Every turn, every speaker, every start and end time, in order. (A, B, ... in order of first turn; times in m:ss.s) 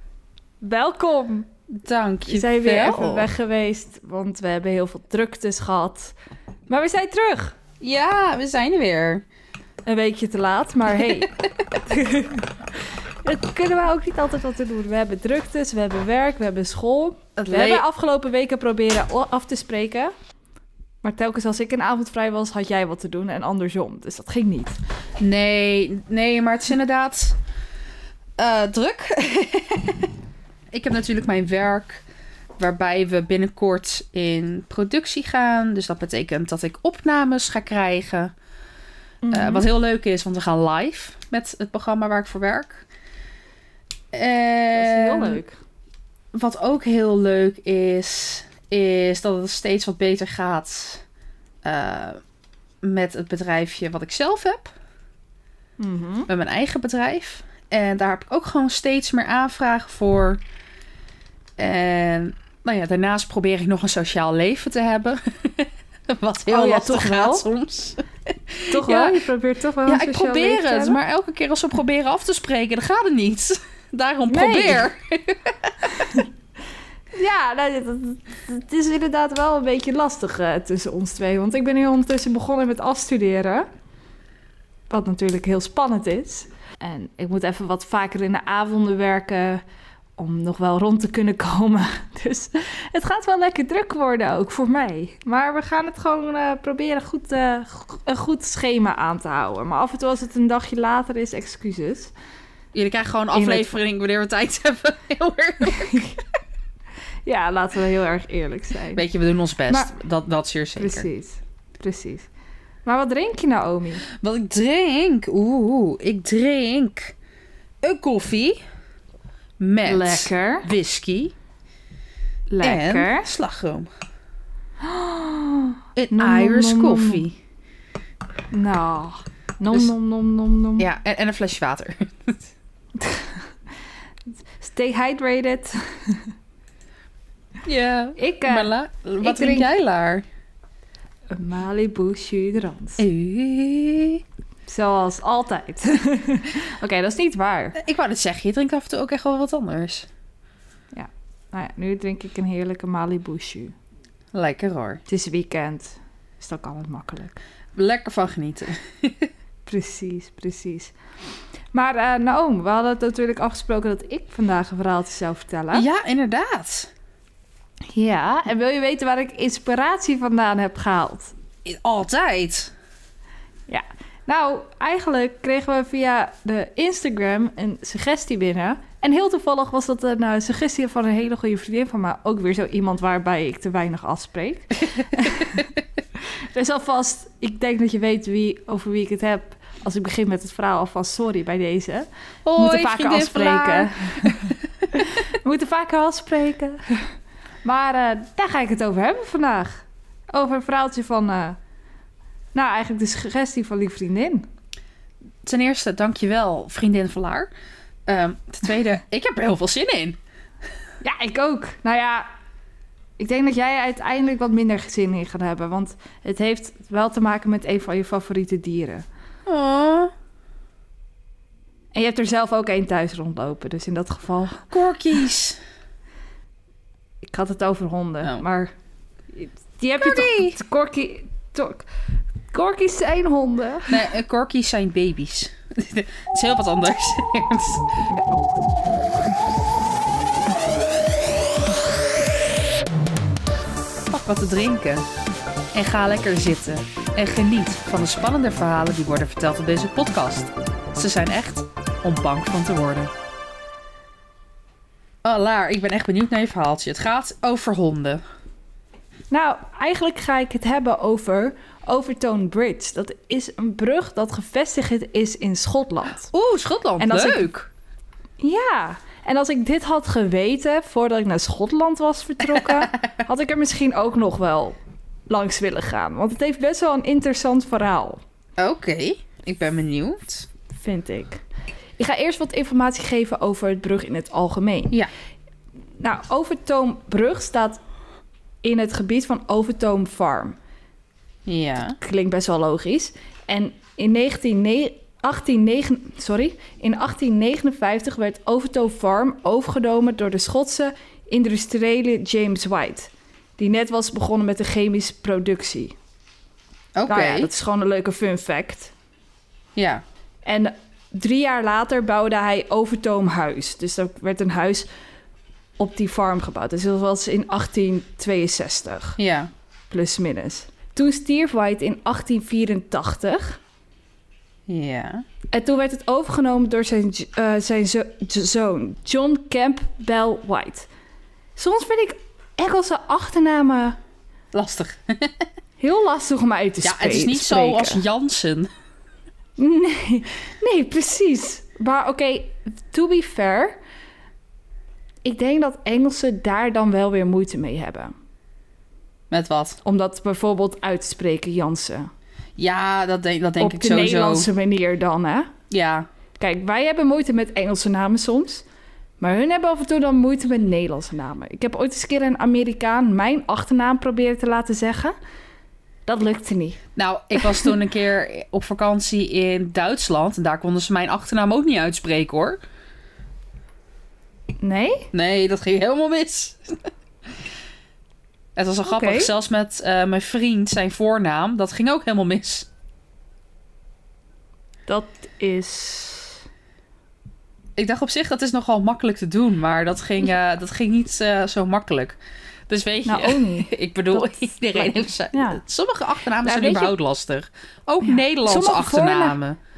0:00.6-0:01.5 A
0:01.7-0:03.3 B
0:02.3-0:06.1 A
0:06.7-0:07.6 A
0:07.8-0:09.2 B
0:09.8-0:12.5 A
0:13.2-0:20.1 A
0:17.4-0:17.8 B
0:21.0-0:24.8 A
0:25.2-0:27.4 B
0:28.4-0:30.1 B
0:30.7-0:32.0 B
0:32.6-0:38.3 B
0:39.2-0:39.6 A
0:39.3-0:42.8 B
0:44.1-0:45.4 B
0:44.7-0:45.6 A
0:46.3-0:51.0 B
0:51.6-0:52.2 B
0:52.8-0:54.7 B
0:55.8-0:56.3 A
0:56.3-1:00.4 B
1:01.6-1:09.2 B
1:06.5-1:07.4 A
1:08.7-1:11.0 A
1:09.8-1:16.2 B
1:14.3-1:14.9 A
1:16.0-1:16.2 A
1:17.2-1:23.7 A
1:24.9-1:29.6 A
1:30.2-1:42.1 A
1:42.7-1:46.0 B
1:43.3-1:43.7 A
1:45.6-1:46.2 A
1:47.2-1:49.0 A
1:48.9-1:51.1 B
1:50.8-1:52.3 A
1:52.8-1:54.0 A
1:54.1-1:57.1 B
1:57.8-1:58.6 B
1:59.6-2:01.3 B
1:59.8-2:00.7 A
2:02.5-2:03.2 A
2:02.6-2:03.9 B
2:04.8-2:07.2 A
2:06.0-2:07.4 B
2:08.5-2:10.9 A
2:10.8-2:12.4 B
2:13.0-2:13.4 A
2:14.6-2:16.3 A
2:17.6-2:20.2 B
2:18.2-2:19.7 A
2:21.3-2:23.0 A
2:23.0-2:24.2 B
2:24.7-2:27.8 A
2:27.8-2:30.1 B
2:30.9-2:33.7 A
2:34.3-2:35.0 B
2:35.1-2:37.4 A
2:37.7-2:39.3 B
2:39.7-2:40.9 A
2:41.7-2:45.8 A
2:45.7-2:46.9 B
2:47.9-2:51.3 A
2:51.6-2:52.7 B
2:53.7-3:05.7 A
3:06.5-3:17.1 A
3:12.4-3:15.1 B
3:17.6-3:21.6 A
3:22.5-3:24.4 A
3:25.4-3:27.5 B
3:28.0-3:30.2 B
3:31.0-3:32.3 A
3:33.2-3:39.0 A
3:39.4-3:40.1 B
3:41.9-3:44.7 A
3:44.7-3:45.6 B
3:47.2-3:48.7 A
3:49.3-3:51.9 A
3:50.0-3:50.6 B
3:52.5-3:54.0 A
3:53.9-3:57.9 B
3:58.1-3:58.5 A
4:04.0-4:05.0 B
4:05.7-4:13.1 B
4:15.2-4:18.2 B
4:19.3-4:26.3 A
4:26.3-4:27.7 B
4:27.0-4:27.5 A
4:28.4-4:34.8 A
4:35.3-4:38.2 A
4:38.6-4:40.5 B
4:40.8-4:41.4 A
4:42.0-4:44.9 A
4:46.0-4:47.8 A
4:48.6-4:50.6 A
4:51.4-4:52.0 B
4:52.0-5:05.9 A
5:07.0-5:07.5 B
5:07.1-5:08.9 A
5:09.8-5:10.0 B
5:10.4-5:14.9 A
5:15.8-5:19.2 A
5:19.2-5:19.5 B
5:19.9-5:23.6 A
5:24.7-5:25.2 B
5:25.5-5:30.9 A
5:31.6-5:34.0 A
5:34.5-5:35.4 B
5:35.8-5:38.0 A
5:36.8-5:38.7 B
5:39.6-5:43.8 A
5:45.2-5:48.1 A
5:49.3-5:49.8 B
5:49.8-5:52.1 A
5:52.6-5:54.5 B
5:53.6-5:55.5 A
5:55.7-5:56.0 B
5:56.4-5:58.6 A
5:59.2-6:05.1 A
6:06.1-6:06.8 A
6:07.0-6:12.6 B
6:07.4-6:07.7 A
6:14.6-6:15.1 A
6:15.1-6:16.9 B
6:18.6-6:22.7 B
6:18.9-6:19.3 A
6:24.9-6:26.4 A
6:27.8-6:32.2 B
6:32.7-6:39.6 B
6:33.0-6:35.6 A
6:36.4-6:36.9 A
6:38.0-6:39.4 A